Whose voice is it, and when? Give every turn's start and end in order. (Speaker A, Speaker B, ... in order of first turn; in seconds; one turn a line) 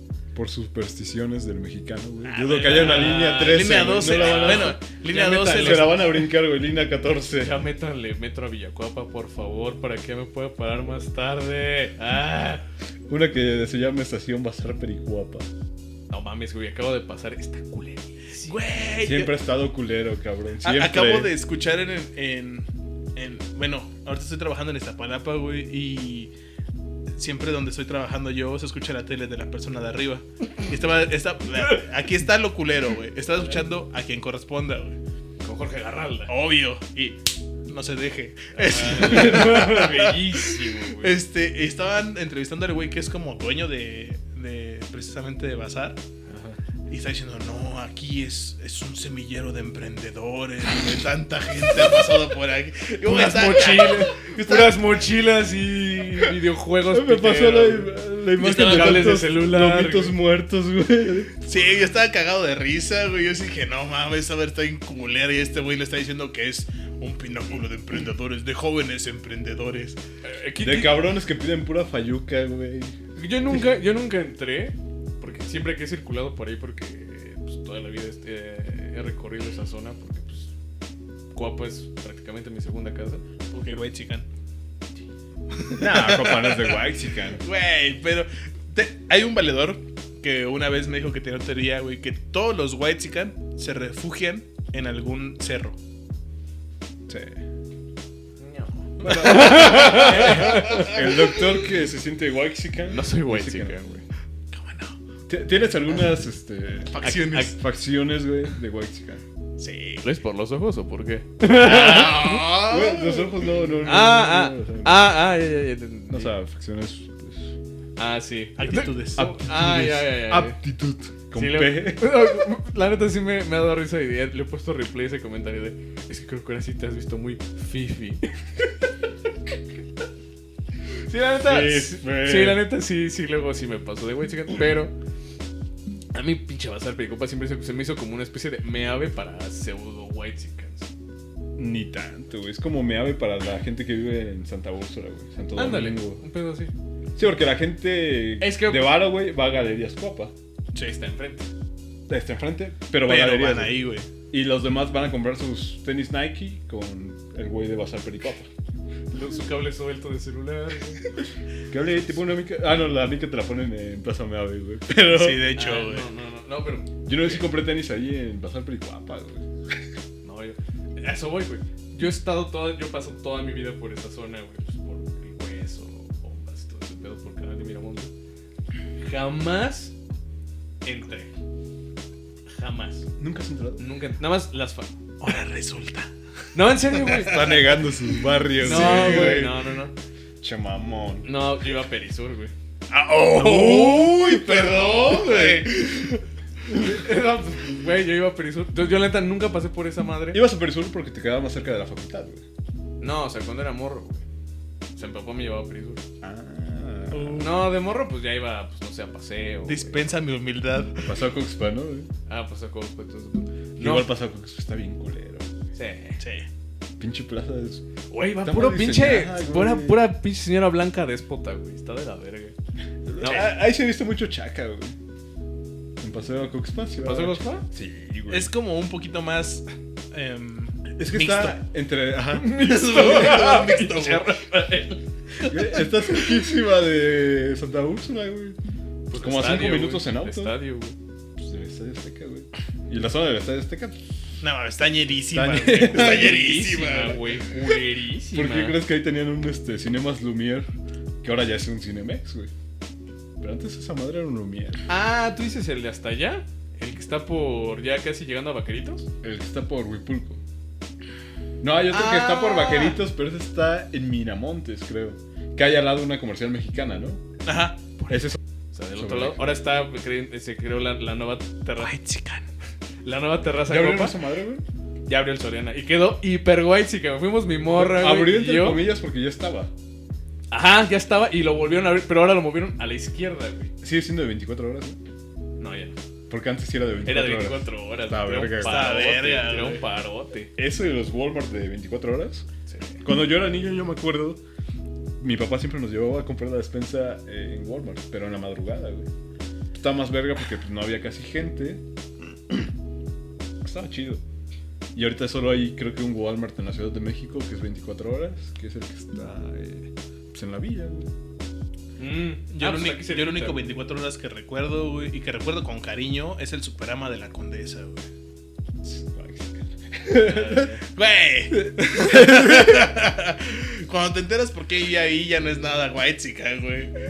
Speaker A: 0.3-4.8
Speaker B: 2.2-6.0
Speaker C: 2.6-6.2
Speaker A: 5.5-7.6
Speaker C: 7.3-12.6
Speaker A: 13.1-15.5
Speaker C: 16.1-18.6
Speaker B: 18.4-19.3
Speaker A: 19.0-21.3
Speaker B: 20.6-26.3
Speaker B: 27.1-35.0
Speaker C: 35.4-36.3
Speaker B: 36.3-46.0
Speaker C: 38.6-41.2
Speaker C: 46.3-46.6
Speaker B: 46.9-54.8
Speaker C: 53.0-60.2
Speaker A: 56.9-61.5
Speaker B: 58.5-59.0
Speaker B: 61.5-70.0
Speaker C: 70.2-71.0
Speaker A: 70.6-73.0
Speaker C: 73.2-80.5
Speaker C: 81.3-83.2
Speaker B: 83.5-84.3
Speaker B: 85.5-95.8
Speaker A: 85.8-87.4
Speaker A: 97.1-97.4
Speaker C: 98.4-101.0
Speaker A: 99.0-103.8
Speaker B: 99.0-100.8
Speaker C: 102.9-104.0
Speaker B: 104.5-105.0
Speaker A: 105.3-109.2
Speaker B: 106.9-107.5
Speaker C: 107.0-107.5
Speaker B: 109.6-110.1
Speaker C: 110.0-112.5
Speaker B: 111.5-113.4
Speaker A: 112.6-115.1
Speaker C: 113.9-116.3
Speaker A: 116.1-117.5
Speaker C: 118.0-120.6
Speaker B: 118.6-119.3
Speaker A: 119.2-122.3
Speaker C: 121.3-128.3
Speaker C: 131.1-134.9
Speaker A: 131.4-132.6
Speaker C: 136.1-140.9
Speaker A: 141.6-146.2
Speaker C: 145.6-146.7
Speaker A: 147.2-150.3
Speaker C: 148.4-149.1
Speaker C: 150.8-151.5
Speaker A: 152.1-158.5
Speaker B: 153.0-154.1
Speaker C: 159.1-161.1
Speaker A: 161.7-165.4
Speaker B: 165.1-166.1
Speaker C: 165.6-167.4
Speaker A: 167.1-169.4
Speaker C: 170.2-178.1
Speaker C: 179.0-179.9
Speaker C: 180.8-181.3
Speaker C: 182.5-183.1
Speaker A: 183.2-183.9
Speaker C: 183.8-184.9
Speaker B: 185.2-186.1
Speaker C: 186.6-187.5
Speaker B: 186.9-187.7
Speaker A: 187.2-189.5
Speaker B: 188.5-189.6
Speaker C: 188.6-189.9
Speaker A: 190.4-191.3
Speaker C: 191.2-192.5
Speaker B: 192.9-196.2
Speaker A: 193.3-195.9
Speaker C: 196.7-200.4
Speaker A: 200.3-202.4
Speaker C: 203.0-204.2
Speaker C: 204.9-206.0
Speaker A: 206.2-207.5
Speaker B: 207.1-207.6
Speaker C: 207.4-210.0
Speaker B: 209.6-211.1
Speaker A: 211.0-212.1
Speaker C: 212.3-214.1
Speaker A: 213.8-215.5
Speaker C: 215.8-216.2
Speaker B: 216.2-216.5
Speaker A: 217.0-217.8
Speaker C: 218.1-222.6
Speaker A: 218.4-220.0
Speaker A: 223.1-225.0
Speaker C: 223.2-223.5
Speaker A: 226.0-228.5
Speaker C: 227.0-227.6
Speaker B: 228.3-231.5
Speaker A: 231.0-232.5
Speaker C: 232.3-235.5
Speaker B: 232.5-234.3
Speaker A: 235.4-238.6
Speaker C: 239.1-241.0
Speaker A: 239.1-240.6
Speaker A: 241.4-244.3
Speaker B: 244.4-247.5
Speaker A: 245.3-246.4
Speaker C: 245.9-248.8
Speaker A: 248.3-250.7
Speaker A: 251.2-252.5
Speaker A: 253.4-254.8
Speaker C: 254.9-259.1
Speaker A: 259.2-260.4
Speaker A: 261.6-267.2
Speaker B: 261.9-263.0
Speaker B: 267.4-268.0
Speaker A: 268.1-268.4
Speaker C: 268.7-272.0
Speaker A: 268.9-269.6
Speaker B: 271.8-272.5
Speaker C: 273.0-274.2
Speaker A: 273.7-274.6
Speaker C: 275.1-278.9
Speaker A: 277.7-279.7
Speaker C: 280.5-283.7
Speaker A: 283.8-285.0
Speaker C: 285.6-286.0
Speaker A: 286.3-288.9
Speaker C: 287.1-290.5
Speaker B: 288.6-289.8
Speaker A: 290.6-292.5
Speaker C: 292.7-293.0
Speaker A: 293.0-294.4
Speaker A: 295.2-299.1
Speaker A: 299.7-301.8
Speaker A: 303.6-304.2
Speaker A: 304.9-311.1
Speaker C: 312.0-313.6
Speaker B: 312.5-318.1
Speaker A: 318.8-320.7
Speaker C: 320.3-320.9
Speaker B: 320.9-326.9
Speaker A: 321.5-322.9